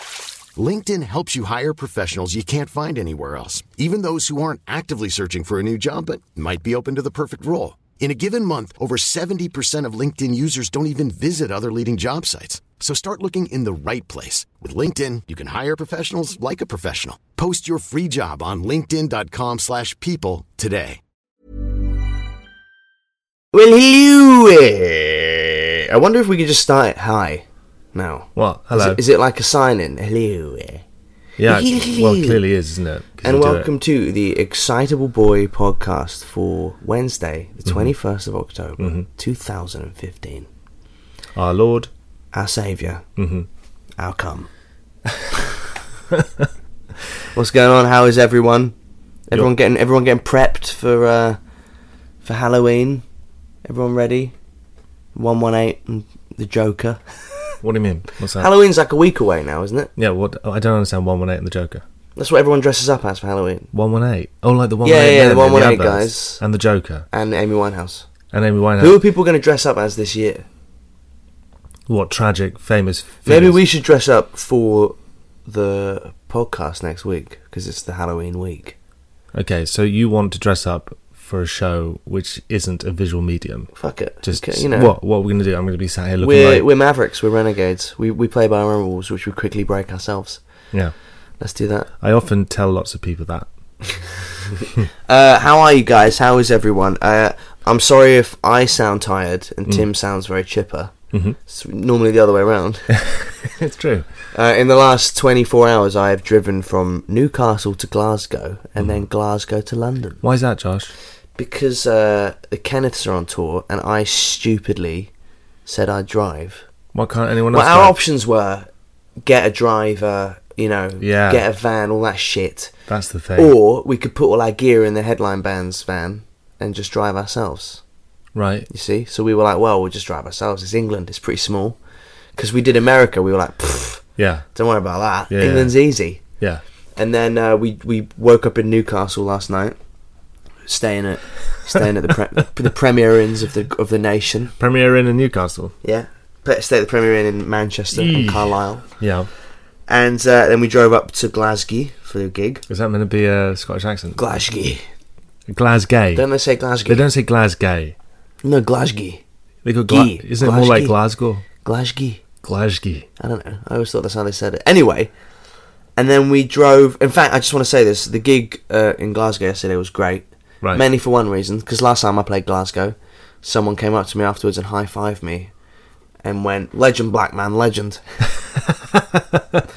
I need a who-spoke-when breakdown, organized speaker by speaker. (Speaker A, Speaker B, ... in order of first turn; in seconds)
Speaker A: 0.6-21.0
Speaker B: 23.5-30.8, 31.5-32.4, 33.2-40.5, 42.3-43.0, 44.0-44.5, 47.3-48.7, 49.3-51.4, 52.2-53.0, 53.6-54.3, 55.1-57.4, 58.4-59.9, 62.2-63.7, 64.8-66.4, 67.1-68.1, 68.8-70.5, 73.3-75.0, 75.5-78.8, 83.7-85.0, 86.2-90.4, 91.4-91.9, 95.1-100.9, 101.5-102.9, 104.3-110.2, 111.4-115.1, 115.7-116.6, 117.5-118.7, 119.2-122.7, 123.4-127.8, 128.7-131.8, 132.3-134.0, 134.5-136.2, 136.9-139.8, 140.7-144.5, 145.8-148.9, 149.9-152.6, 154.2-154.8, 156.1-157.0, 158.4-159.2, 159.9-160.9, 161.6-162.2, 163.2-165.1, 166.0-175.5, 176.2-178.0
Speaker C: 28.4-29.0, 31.4-33.7, 38.8-39.0, 41.4-41.9, 43.2-43.5, 57.6-58.5, 60.0-61.8, 63.7-67.1, 68.3-69.0, 71.9-73.6, 79.3-86.7, 92.0-93.5, 101.1-101.4, 103.0-104.1, 110.2-110.9, 116.9-118.0, 121.0-121.4, 122.9-123.5, 128.3-128.7, 134.2-134.5, 135.3-136.6, 144.6-145.7, 147.9-149.3, 152.7-154.3, 155.5-156.2, 156.8-157.9, 159.6-161.4, 162.4-163.1, 179.2-179.6